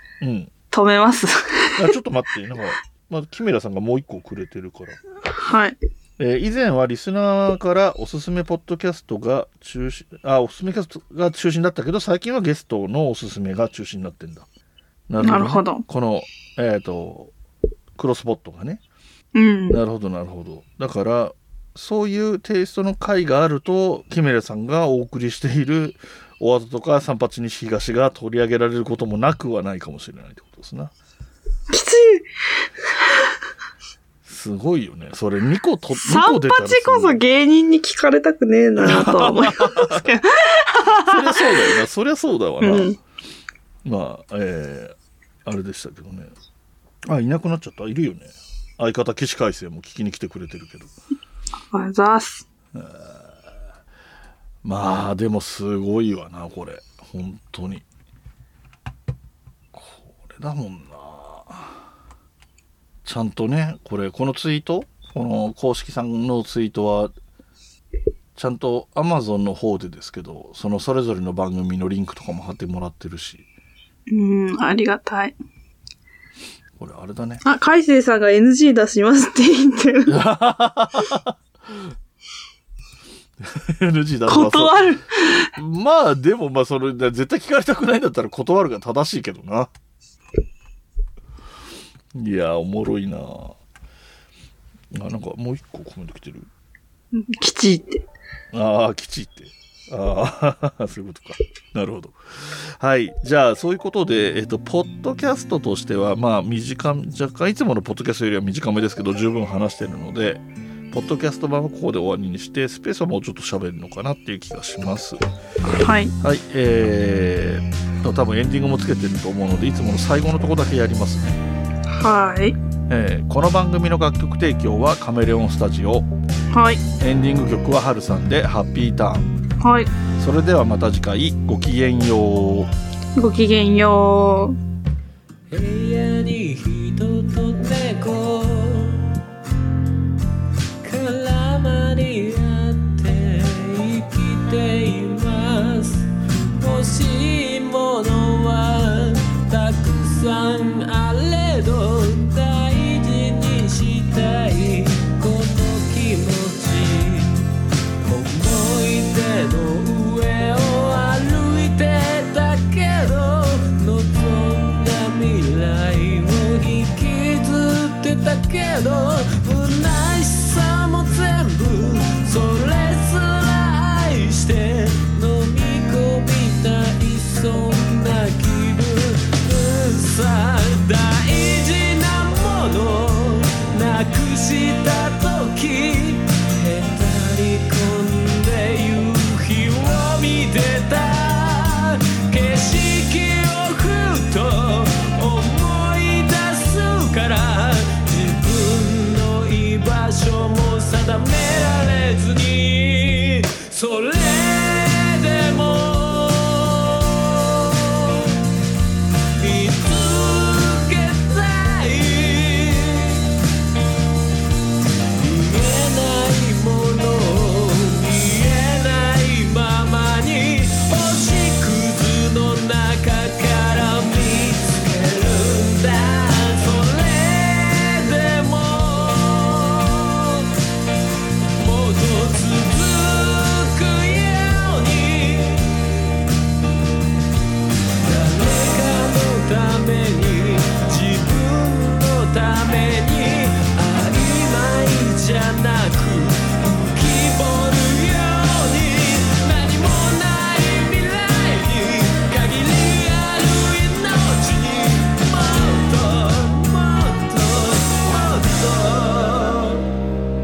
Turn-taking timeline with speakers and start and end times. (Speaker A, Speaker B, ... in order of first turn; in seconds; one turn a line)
Speaker A: 0.2-0.5
Speaker B: 0.7-1.9
Speaker A: 1.8-5.0
Speaker B: 5.3-5.8
Speaker A: 6.2-14.5
Speaker A: 15.1-17.3
Speaker B: 15.2-15.8
Speaker A: 18.0-18.8
Speaker B: 19.3-19.8
Speaker A: 19.7-30.9
Speaker B: 31.7-32.3
Speaker A: 34.2-37.2
Speaker B: 36.0-41.5
Speaker A: 38.8-40.0
Speaker A: 40.9-42.9
Speaker B: 42.6-43.0
Speaker A: 43.8-44.9
Speaker A: 45.5-46.3
Speaker A: 47.1-50.9
Speaker B: 51.7-52.4
Speaker A: 52.7-53.3
Speaker A: 54.6-57.8
Speaker A: 59.7-61.8
Speaker A: 63.0-67.1
Speaker A: 68.3-73.4
Speaker B: 74.1-75.3
Speaker A: 76.8-77.4
Speaker B: 77.4-80.1
Speaker A: 80.1-81.3
Speaker A: 83.4-84.9
Speaker B: 84.3-85.5
Speaker A: 85.5-89.7
Speaker A: 92.1-93.5
Speaker A: 94.9-96.5
Speaker B: 97.1-98.0
Speaker A: 98.5-115.2
Speaker B: 115.7-116.1
Speaker A: 116.2-121.4
Speaker B: 121.9-122.5
Speaker A: 122.9-126.1
Speaker B: 126.5-126.8
Speaker A: 127.0-129.3
Speaker B: 129.6-129.9
Speaker A: 130.2-132.7
Speaker B: 133.2-134.6
Speaker C: 135.5-139.1
Speaker C: 140.8-157.4
Speaker C: 158.0-208.4
Speaker C: 209.4-213.3
Speaker C: 215.1-230.5
Speaker C: 231.5-235.8
Speaker C: 238.0-259.8